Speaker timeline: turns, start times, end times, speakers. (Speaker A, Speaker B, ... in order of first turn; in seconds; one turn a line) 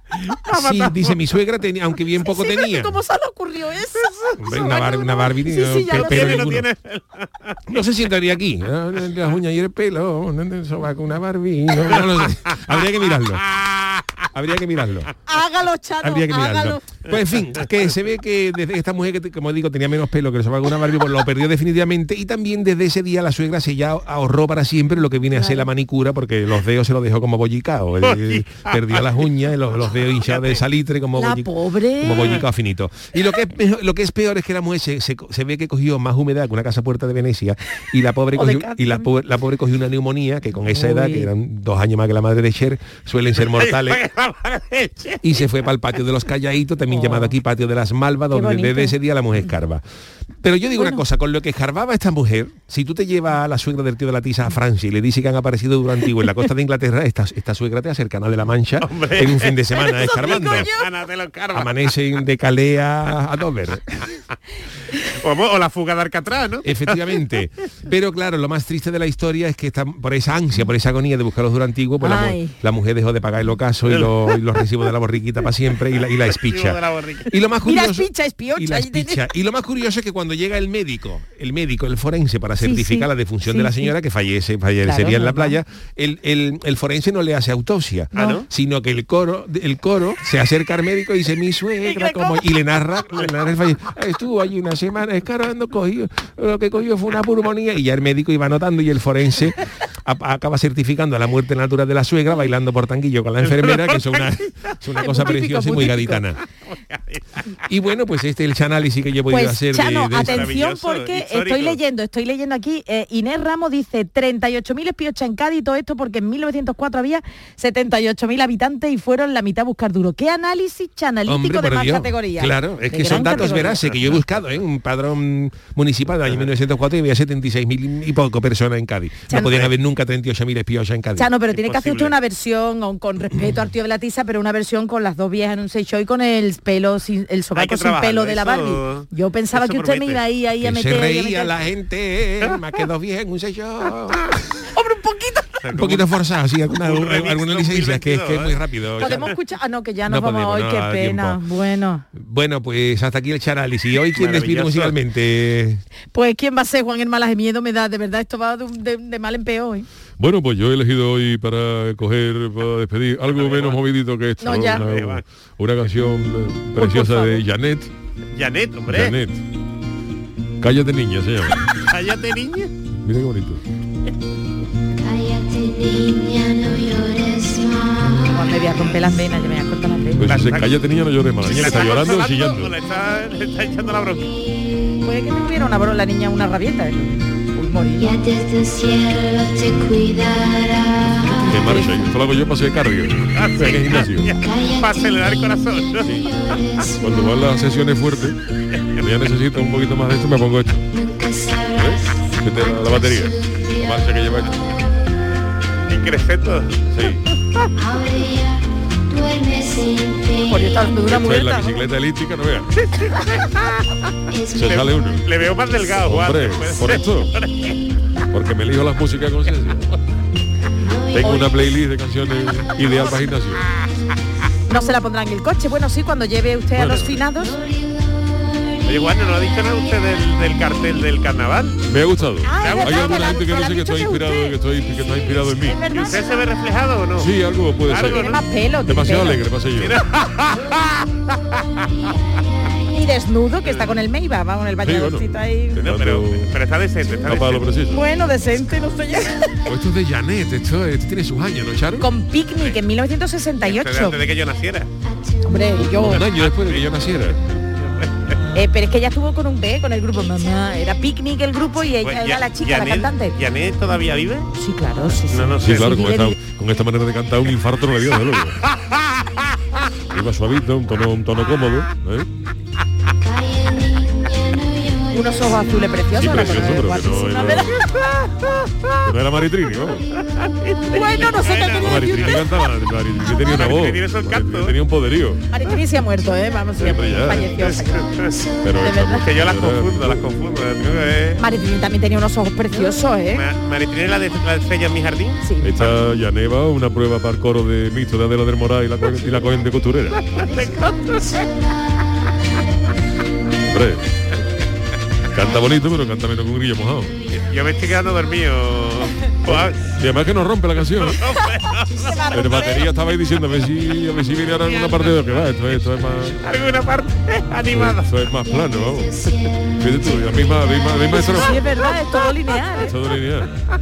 Speaker A: 0.3-1.2
Speaker B: 0.5-3.0
Speaker C: 2.2-6.5
Speaker B: 4.4-6.7
Speaker A: 5.9-7.6
Speaker B: 7.7-13.4
Speaker A: 13.4-14.2
Speaker B: 14.3-15.1
Speaker C: 15.3-16.9
Speaker B: 16.0-44.0
Speaker C: 25.3-25.7
Speaker A: 28.0-29.1
Speaker A: 30.2-30.6
Speaker C: 31.2-32.5
Speaker A: 32.1-32.4
Speaker C: 38.3-39.1
Speaker C: 40.7-41.3
Speaker A: 43.4-45.5
Speaker B: 45.2-49.8
Speaker C: 46.9-47.4
Speaker C: 48.3-49.0
Speaker B: 50.4-60.7
Speaker C: 50.8-51.0
Speaker A: 58.8-61.8
Speaker C: 59.8-60.9
Speaker B: 61.5-64.0
Speaker A: 65.1-67.2
Speaker B: 66.6-106.4
Speaker C: 72.0-72.6
Speaker A: 73.9-74.4
Speaker A: 76.4-77.3
Speaker C: 77.7-79.3
Speaker C: 82.6-83.9
Speaker C: 84.8-85.6
Speaker C: 88.2-88.4
Speaker A: 88.2-88.5
Speaker C: 91.8-92.4
Speaker A: 103.4-104.7
Speaker C: 105.0-106.2
Speaker A: 106.7-107.2
Speaker B: 107.7-110.6
Speaker C: 109.3-123.8
Speaker A: 110.2-111.8
Speaker B: 121.3-131.3
Speaker A: 123.4-123.8
Speaker C: 129.3-129.6
Speaker C: 131.2-141.5
Speaker A: 131.5-132.1
Speaker A: 137.6-140.2
Speaker B: 140.6-144.3
Speaker C: 144.8-145.6
Speaker A: 145.6-146.1
Speaker B: 145.7-149.3
Speaker A: 146.8-149.4
Speaker C: 149.0-152.1
Speaker B: 150.1-151.4
Speaker B: 152.1-155.8
Speaker A: 154.2-155.0
Speaker C: 156.1-159.9
Speaker D: 160.2-167.9
Speaker A: 163.2-163.8
Speaker C: 164.4-164.8
Speaker A: 164.6-165.2
Speaker C: 166.8-167.4
Speaker A: 168.4-169.2
Speaker D: 168.9-169.4
Speaker D: 170.6-171.6
Speaker A: 171.9-172.7
Speaker D: 173.0-173.6
Speaker E: 175.0-179.0
Speaker C: 178.3-180.3
Speaker D: 180.2-182.7
Speaker A: 180.2-180.9
Speaker A: 181.4-184.3
Speaker E: 184.1-185.1
Speaker C: 185.0-188.1
Speaker E: 188.0-191.9
Speaker C: 191.2-191.9
Speaker D: 191.5-194.3
Speaker A: 193.3-196.3
Speaker E: 194.4-197.5
Speaker D: 197.0-198.4
Speaker D: 199.0-200.9
Speaker E: 200.9-205.1
Speaker D: 201.8-204.5
Speaker A: 205.9-206.8
Speaker D: 206.9-207.2
Speaker E: 207.8-211.1
Speaker C: 210.5-211.8
Speaker D: 211.1-212.7
Speaker E: 214.3-214.9
Speaker D: 214.6-215.2
Speaker A: 214.6-217.7
Speaker D: 215.9-217.3
Speaker D: 218.3-219.9
Speaker E: 220.8-221.8
Speaker D: 221.1-223.6
Speaker C: 224.7-227.6
Speaker D: 226.7-227.2
Speaker E: 227.2-230.0
Speaker A: 228.9-231.8
Speaker D: 231.8-235.9
Speaker C: 232.4-236.4
Speaker A: 232.6-233.2
Speaker A: 235.9-237.3
Speaker D: 237.2-238.3
Speaker A: 237.9-238.4
Speaker C: 238.1-239.4
Speaker D: 238.9-240.0
Speaker A: 239.8-241.1
Speaker C: 242.9-245.8
Speaker A: 243.6-243.9
Speaker D: 244.8-246.6
Speaker A: 245.8-247.8
Speaker D: 247.3-248.1
Speaker C: 247.9-249.7
Speaker B: 249.7-252.1
Speaker C: 252.0-254.2
Speaker A: 253.6-254.9
Speaker E: 255.0-255.9
Speaker C: 255.4-256.2
Speaker B: 255.9-257.4
Speaker A: 256.1-256.8
Speaker A: 257.6-258.4
Speaker C: 258.5-263.4
Speaker A: 262.0-264.5
Speaker C: 264.5-266.4
Speaker A: 265.3-266.0
Speaker D: 265.6-268.6
Speaker D: 270.1-272.3
Speaker E: 273.2-277.2
Speaker C: 275.1-277.8
Speaker D: 276.2-277.8
Speaker D: 279.0-280.1
Speaker A: 280.4-282.5
Speaker C: 280.9-282.4
Speaker D: 281.8-285.4
Speaker A: 283.2-284.8
Speaker C: 285.5-288.2
Speaker D: 286.8-287.6
Speaker A: 287.6-288.4
Speaker E: 288.3-289.0
Speaker D: 288.6-290.3
Speaker C: 288.7-289.3
Speaker A: 289.2-291.4
Speaker C: 291.4-293.4
Speaker A: 293.3-295.9
Speaker C: 295.4-295.7
Speaker D: 295.6-300.3
Speaker E: 300.4-302.6
Speaker A: 300.4-301.2
Speaker D: 303.7-304.0
Speaker D: 305.3-307.2
Speaker A: 307.3-309.8
Speaker D: 309.5-311.2
Speaker A: 311.0-312.6
Speaker C: 312.0-312.9
Speaker D: 312.3-316.4
Speaker A: 314.7-315.4
Speaker A: 316.4-318.1
Speaker D: 317.7-319.2
Speaker E: 318.4-321.5
Speaker D: 319.8-321.6
Speaker C: 321.1-322.9
Speaker D: 322.8-323.6